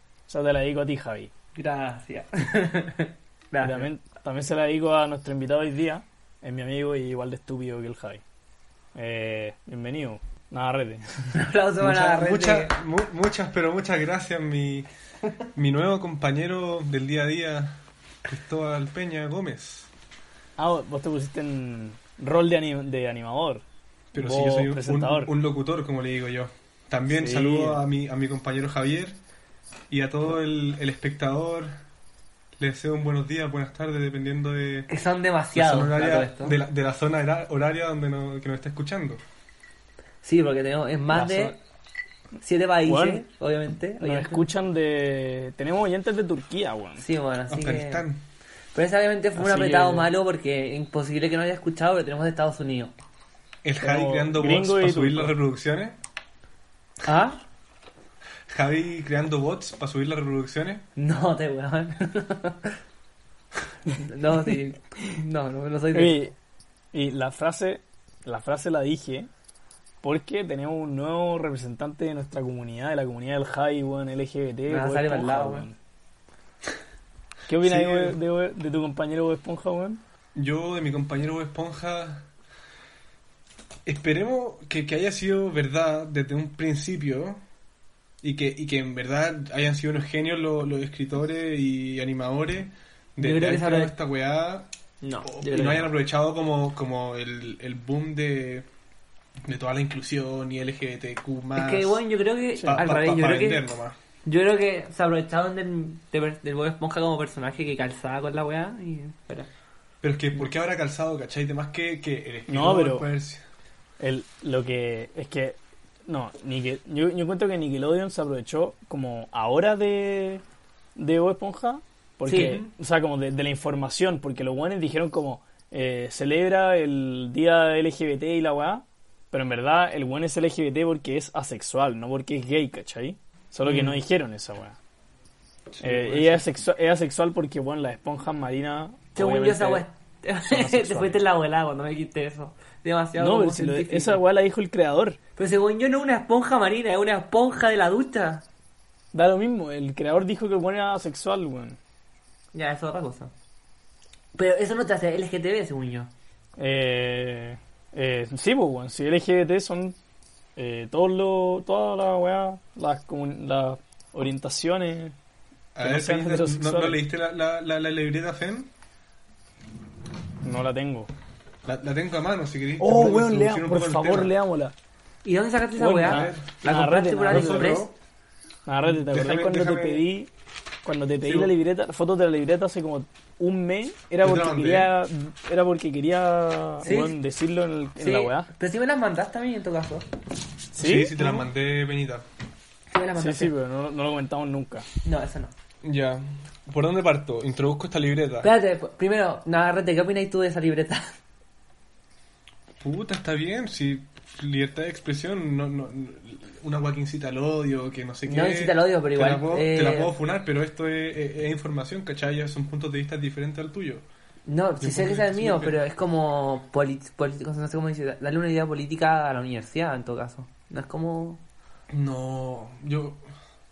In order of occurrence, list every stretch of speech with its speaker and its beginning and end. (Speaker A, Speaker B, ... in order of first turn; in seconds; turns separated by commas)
Speaker A: 0.3-1.3, Speaker B: 1.6-3.9, Speaker A: 3.6-8.2, Speaker A: 8.9-11.3, Speaker B: 11.3-12.8, Speaker C: 11.8-14.9, Speaker C: 15.6-19.9, Speaker A: 20.6-23.6, Speaker C: 24.1-29.2, Speaker A: 24.2-25.3, Speaker A: 27.1-27.8, Speaker C: 29.9-31.7, Speaker C: 32.6-34.9, Speaker B: 34.9-36.6, Speaker C: 35.5-39.2, Speaker B: 40.2-41.5, Speaker A: 41.1-41.5, Speaker B: 42.4-44.5, Speaker A: 42.9-43.2, Speaker A: 44.0-47.0, Speaker B: 47.0-48.1, Speaker C: 47.5-48.2, Speaker B: 48.8-52.9, Speaker A: 49.4-50.0, Speaker C: 53.6-56.0, Speaker A: 53.8-55.4, Speaker B: 57.0-57.4, Speaker C: 58.5-60.9, Speaker B: 61.0-62.8, Speaker B: 64.0-66.2, Speaker A: 65.9-66.3, Speaker A: 66.9-69.3, Speaker A: 70.0-75.8, Speaker B: 74.7-75.7, Speaker A: 77.5-80.0, Speaker C: 77.6-78.2, Speaker C: 80.4-82.3, Speaker C: 83.9-87.4, Speaker C: 88.2-94.7, Speaker B: 93.2-93.9, Speaker B: 95.0-95.9, Speaker C: 95.2-98.7, Speaker C: 99.5-102.0, Speaker B: 101.6-103.7, Speaker C: 102.6-104.0, Speaker B: 104.2-109.5, Speaker C: 110.0-113.4, Speaker A: 112.5-113.1, Speaker A: 114.0-120.4, Speaker A: 121.0-134.8, Speaker B: 122.3-122.6, Speaker C: 122.3-122.7, Speaker C: 135.7-136.5, Speaker A: 135.8-139.9, Speaker B: 139.2-144.2, Speaker A: 140.4-141.2, Speaker A: 143.2-145.2, Speaker B: 145.4-148.4, Speaker A: 149.1-151.8, Speaker B: 152.5-153.3, Speaker B: 154.3-156.1, Speaker A: 156.6-160.0, Speaker A: 160.6-165.2, Speaker C: 165.8-168.7, Speaker A: 165.8-167.0, Speaker A: 170.4-171.1, Speaker C: 171.6-174.3, Speaker A: 172.8-174.8, Speaker B: 175.2-177.9, Speaker A: 175.8-177.8, Speaker C: 175.9-176.5, Speaker C: 177.3-177.9, Speaker A: 178.7-180.3, Speaker C: 178.9-180.1, Speaker A: 180.8-188.5, Speaker C: 181.2-181.6, Speaker C: 184.2-184.9, Speaker B: 186.8-187.2, Speaker B: 188.0-190.1, Speaker A: 190.7-191.4, Speaker C: 190.8-192.2, Speaker B: 192.9-193.5, Speaker A: 193.2-194.9, Speaker B: 195.0-195.5, Speaker C: 195.8-198.5, Speaker B: 198.4-201.1, Speaker C: 202.8-214.1, Speaker B: 208.3-210.1, Speaker B: 214.5-221.4, Speaker C: 214.8-215.8, Speaker C: 221.9-223.2